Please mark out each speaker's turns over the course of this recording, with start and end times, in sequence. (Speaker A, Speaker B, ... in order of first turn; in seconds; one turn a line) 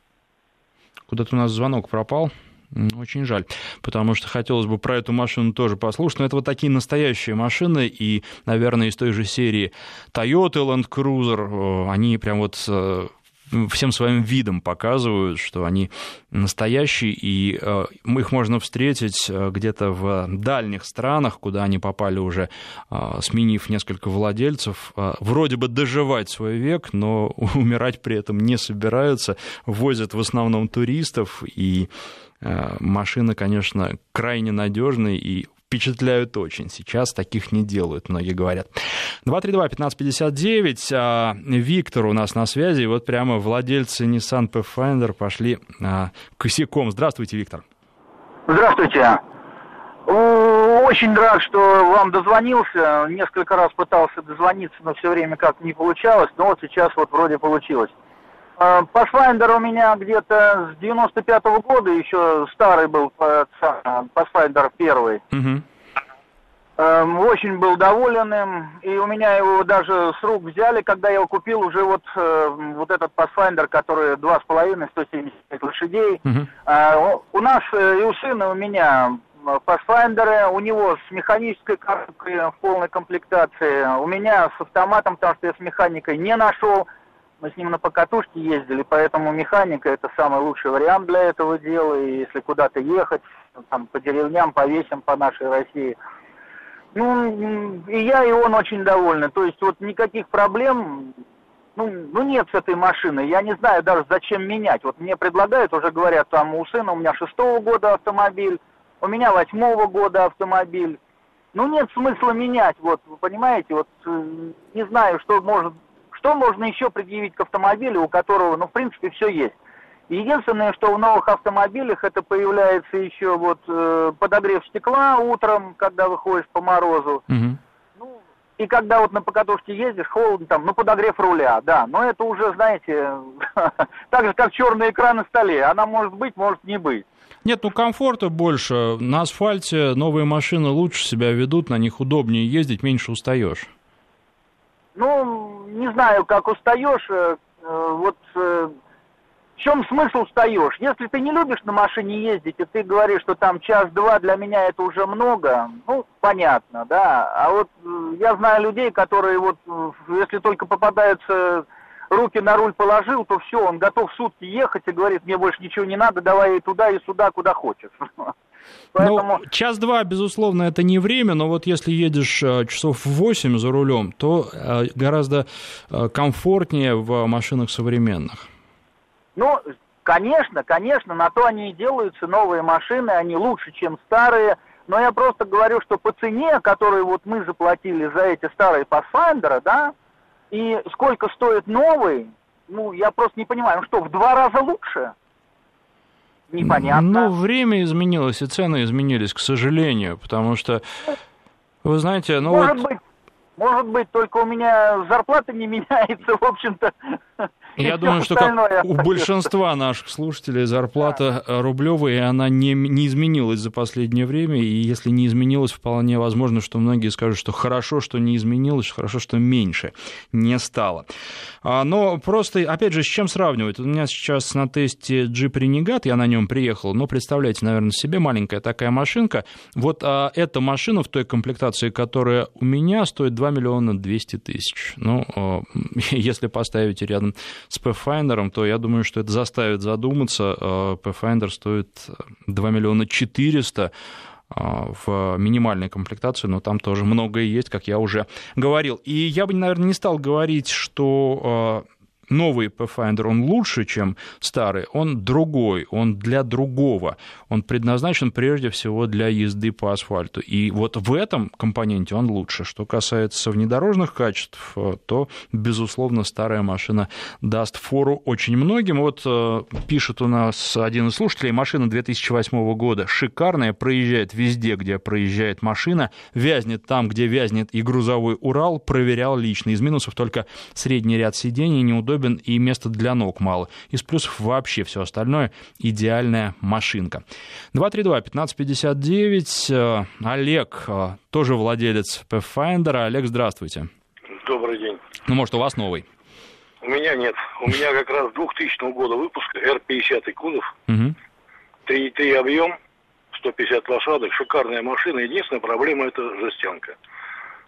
Speaker A: 1.1-31.9
Speaker A: 32.4-38.7
Speaker A: 39.2-47.6
Speaker B: 48.5-49.2
Speaker B: 50.1-57.9
Speaker B: 58.6-65.2
Speaker A: 65.3-65.6
Speaker B: 66.8-86.9
Speaker B: 87.4-96.0
Speaker B: 96.9-101.1
Speaker B: 101.8-111.0
Speaker B: 111.5-119.5
Speaker B: 120.1-127.2
Speaker A: 127.3-127.6
Speaker B: 128.6-137.0
Speaker A: 137.4-143.7
Speaker B: 144.9-148.7
Speaker B: 149.6-168.3
Speaker B: 168.9-169.4
Speaker A: 169.0-178.5
Speaker B: 179.3-189.9
Speaker B: 190.5-195.1
Speaker B: 196.5-197.3
Speaker A: 196.6-200.8
Speaker A: 201.8-202.8
Speaker B: 202.5-203.0
Speaker B: 203.6-209.2
Speaker A: 207.8-221.1
Speaker A: 221.6-243.9
Speaker A: 244.5-293.9
Speaker C: 294.4-295.0
Speaker A: 295.2-296.1
Speaker C: 296.8-300.7
Speaker A: 300.9-301.1
Speaker C: 301.9-302.8
Speaker C: 303.3-306.9